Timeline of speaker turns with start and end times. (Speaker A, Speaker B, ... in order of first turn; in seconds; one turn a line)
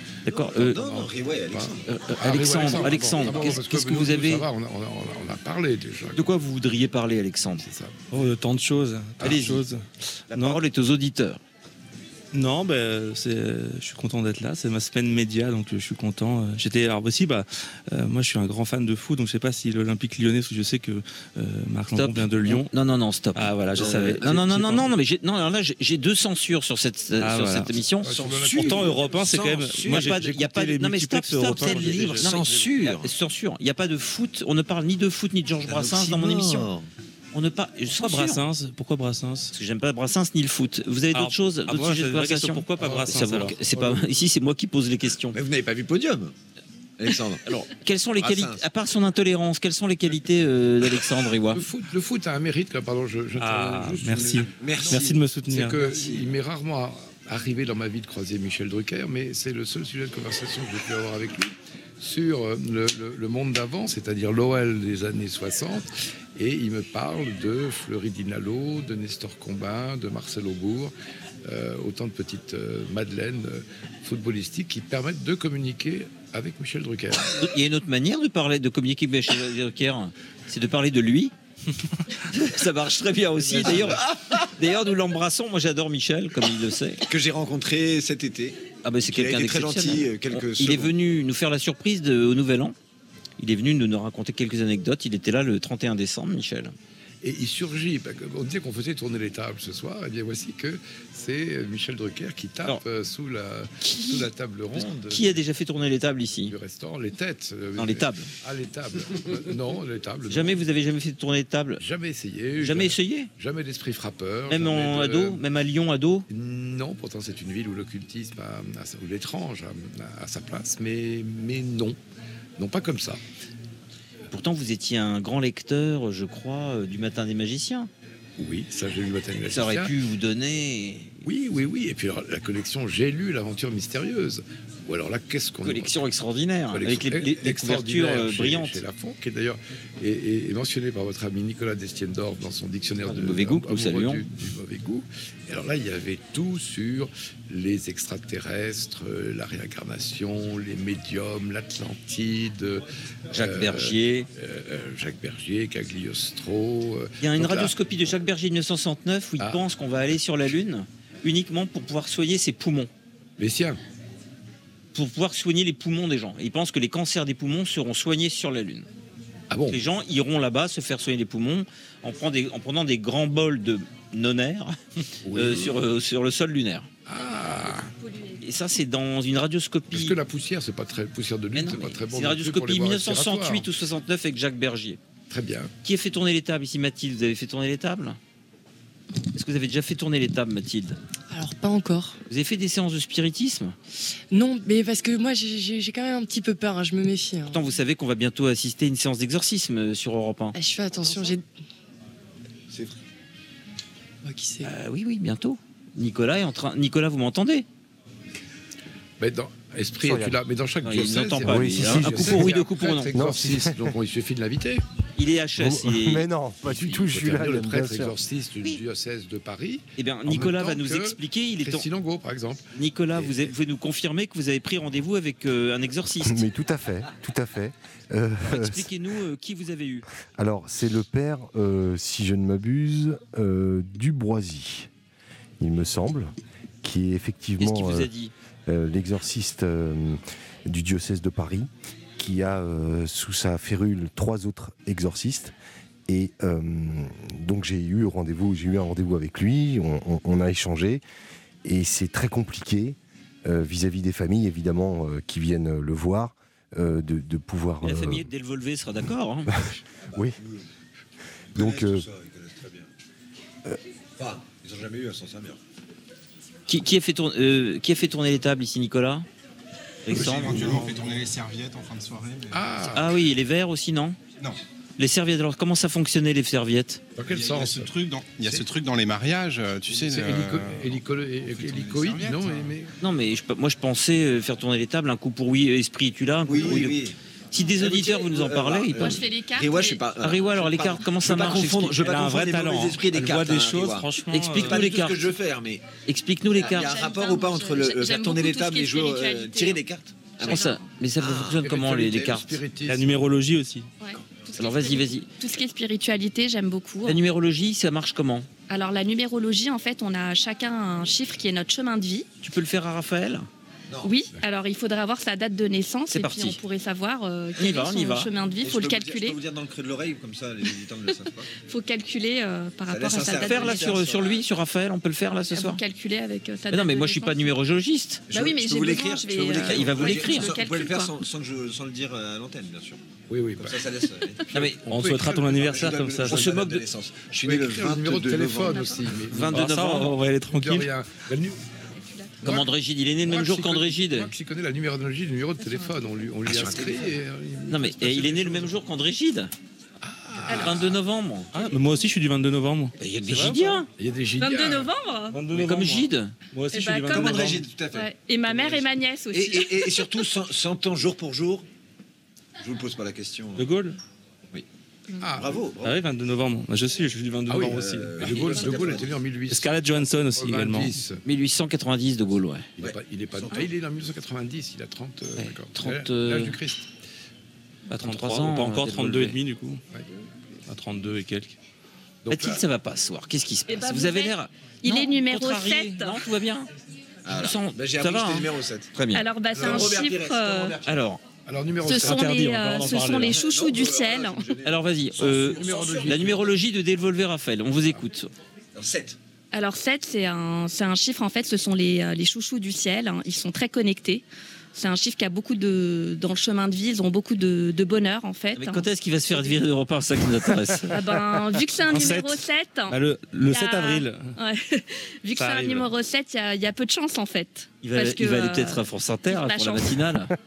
Speaker A: 0.3-0.8
Speaker B: 0.3-1.9
Speaker C: 0.6-6.3
Speaker A: 1.9-4.5
Speaker B: 2.5-3.5
Speaker A: 6.2-7.7
Speaker C: 7.6-8.0
Speaker D: 8.1-10.6
Speaker A: 9.2-9.6
Speaker C: 9.2-9.6
Speaker A: 10.3-11.4
Speaker D: 12.3-22.7
Speaker A: 21.9-28.2
Speaker D: 23.4-24.9
Speaker D: 27.2-27.7
Speaker C: 28.0-29.1
Speaker B: 28.1-30.2
Speaker D: 28.4-32.7
Speaker A: 29.8-36.7
Speaker B: 31.6-33.1
Speaker B: 35.6-36.9
Speaker A: 37.3-38.4
Speaker D: 38.0-39.5
Speaker A: 39.5-45.4
Speaker D: 41.1-43.6
Speaker C: 42.8-44.1
Speaker B: 45.3-46.3
Speaker B: 47.0-47.6
Speaker A: 47.5-51.6
Speaker B: 48.2-48.6
Speaker C: 51.5-70.9
Speaker D: 53.4-55.8
Speaker B: 54.5-56.3
Speaker C: 71.4-77.4
Speaker A: 77.3-81.3
Speaker A: 82.2-87.0
Speaker B: 83.5-84.1
Speaker C: 83.6-83.9
Speaker B: 87.1-91.0
Speaker A: 88.8-92.8
Speaker A: 93.4-96.8
Speaker C: 97.2-105.3
Speaker A: 104.7-106.5
Speaker C: 106.5-110.6
Speaker A: 107.8-108.3
Speaker A: 110.3-111.8
Speaker C: 111.8-115.4
Speaker A: 112.6-113.3
Speaker A: 114.5-116.3
Speaker C: 116.3-122.0
Speaker C: 122.6-123.2
Speaker A: 124.3-127.9
Speaker C: 128.4-129.9
Speaker A: 129.5-131.2
Speaker C: 131.2-135.9
Speaker A: 135.6-138.8
Speaker C: 136.7-157.8
Speaker A: 143.0-144.2
Speaker A: 153.3-154.3
Speaker A: 157.2-162.9
Speaker C: 159.4-159.6
Speaker C: 163.4-163.8
Speaker A: 164.9-168.9
Speaker C: 169.5-169.8
Speaker A: 169.7-174.8
Speaker C: 175.2-175.8
Speaker A: 175.3-176.9
Speaker C: 177.1-177.9
Speaker E: 178.0-178.4
Speaker A: 178.4-180.2
Speaker C: 179.9-183.7
Speaker A: 181.5-185.0
Speaker C: 185.3-185.7
Speaker A: 185.8-188.2
Speaker A: 189.3-191.0
Speaker F: 191.3-192.2
Speaker A: 192.3-193.8
Speaker F: 194.3-197.6
Speaker A: 197.5-200.6
Speaker F: 200.5-201.4
Speaker F: 204.2-204.7
Speaker A: 204.6-207.7
Speaker C: 209.2-214.8
Speaker G: 210.0-210.4
Speaker A: 210.8-213.1
Speaker G: 211.4-212.6
Speaker G: 213.1-214.0
Speaker A: 215.2-216.3
Speaker G: 215.6-218.2
Speaker C: 216.7-223.4
Speaker A: 220.0-221.9
Speaker A: 222.8-226.4
Speaker G: 226.2-228.9
Speaker A: 228.4-230.1
Speaker G: 230.3-234.9
Speaker G: 235.6-238.1
Speaker A: 237.6-238.3
Speaker G: 238.7-245.5
Speaker G: 246.1-251.0
Speaker G: 251.7-258.3
Speaker A: 257.8-259.6
Speaker G: 259.5-260.4
Speaker B: 260.1-260.7
Speaker B: 261.5-262.9
Speaker G: 261.6-262.1
Speaker B: 264.2-265.6
Speaker A: 266.7-269.3
Speaker A: 270.1-270.9
Speaker H: 270.1-273.0
Speaker C: 270.1-271.0
Speaker C: 272.5-273.2
Speaker A: 272.9-274.2
Speaker A: 275.0-277.0
Speaker C: 277.2-277.9
Speaker H: 277.2-282.8
Speaker C: 280.0-282.9
Speaker A: 283.0-287.0
Speaker B: 286.4-287.2
Speaker A: 287.5-289.2
Speaker B: 287.8-295.9
Speaker E: 288.9-290.0
Speaker A: 290.2-292.3
Speaker D: 291.9-294.8
Speaker A: 294.3-295.3
Speaker A: 296.1-297.0
Speaker B: 296.5-300.7
Speaker E: 296.6-299.8
Speaker E: 300.4-300.8
Speaker A: 300.4-302.6
Speaker B: 301.2-301.6
Speaker C: 301.6-303.1
Speaker D: 302.9-303.9
Speaker E: 304.0-307.2
Speaker A: 304.6-305.3
Speaker A: 307.0-308.5
Speaker E: 308.7-312.3
Speaker A: 312.4-313.5
Speaker B: 313.9-314.1
Speaker E: 314.0-319.4
Speaker A: 316.1-316.6
Speaker A: 317.6-318.3
Speaker B: 318.6-321.5
Speaker E: 321.6-324.0
Speaker B: 322.9-324.4
Speaker A: 323.4-325.8
Speaker E: 325.5-327.5
Speaker A: 326.7-328.2
Speaker B: 328.3-333.0
Speaker E: 328.3-331.2
Speaker A: 329.6-330.5
Speaker C: 333.3-333.9
Speaker B: 333.6-334.5
Speaker C: 334.4-335.8
Speaker A: 334.5-334.8
Speaker D: 334.9-336.6
Speaker B: 335.6-339.0
Speaker A: 336.3-336.8
Speaker C: 337.4-341.6
Speaker E: 338.7-339.1
Speaker A: 339.3-340.2
Speaker D: 339.4-340.9
Speaker E: 342.0-342.4
Speaker C: 342.4-342.7
Speaker A: 342.4-344.3
Speaker C: 343.2-348.8
Speaker E: 345.6-345.9
Speaker B: 346.5-347.2
Speaker A: 347.7-349.5
Speaker C: 350.0-351.0
Speaker E: 350.5-350.9
Speaker A: 350.5-351.5
Speaker D: 351.5-353.9
Speaker A: 353.0-353.9
Speaker C: 354.0-354.9
Speaker E: 354.4-355.4
Speaker D: 355.3-357.6
Speaker A: 355.5-356.3
Speaker E: 356.7-360.1
Speaker B: 357.1-361.7
Speaker B: 362.6-363.7
Speaker D: 363.6-364.0
Speaker C: 365.2-365.6
Speaker B: 365.4-366.0
Speaker D: 365.8-368.4
Speaker C: 367.5-371.2
Speaker B: 367.6-369.2
Speaker E: 368.6-368.8
Speaker D: 369.5-371.0
Speaker A: 371.2-372.7
Speaker C: 372.8-376.9
Speaker B: 372.8-373.7
Speaker A: 375.4-376.6
Speaker D: 377.9-379.8
Speaker A: 377.9-379.4
Speaker D: 380.7-381.6
Speaker C: 382.2-382.6
Speaker A: 382.3-386.7
Speaker E: 383.7-386.3
Speaker B: 387.2-388.9
Speaker A: 387.3-389.3
Speaker E: 389.1-390.8
Speaker C: 389.5-389.9
Speaker B: 389.6-391.0
Speaker A: 390.8-391.2
Speaker C: 391.5-392.3
Speaker E: 391.8-394.5
Speaker D: 391.9-393.4
Speaker B: 393.2-396.5
Speaker A: 394.6-398.3
Speaker C: 395.2-396.5
Speaker B: 398.8-399.2
Speaker E: 399.5-408.9
Speaker A: 408.6-411.0
Speaker E: 410.8-420.2
Speaker D: 411.9-414.3
Speaker D: 415.4-415.9
Speaker A: 417.8-420.3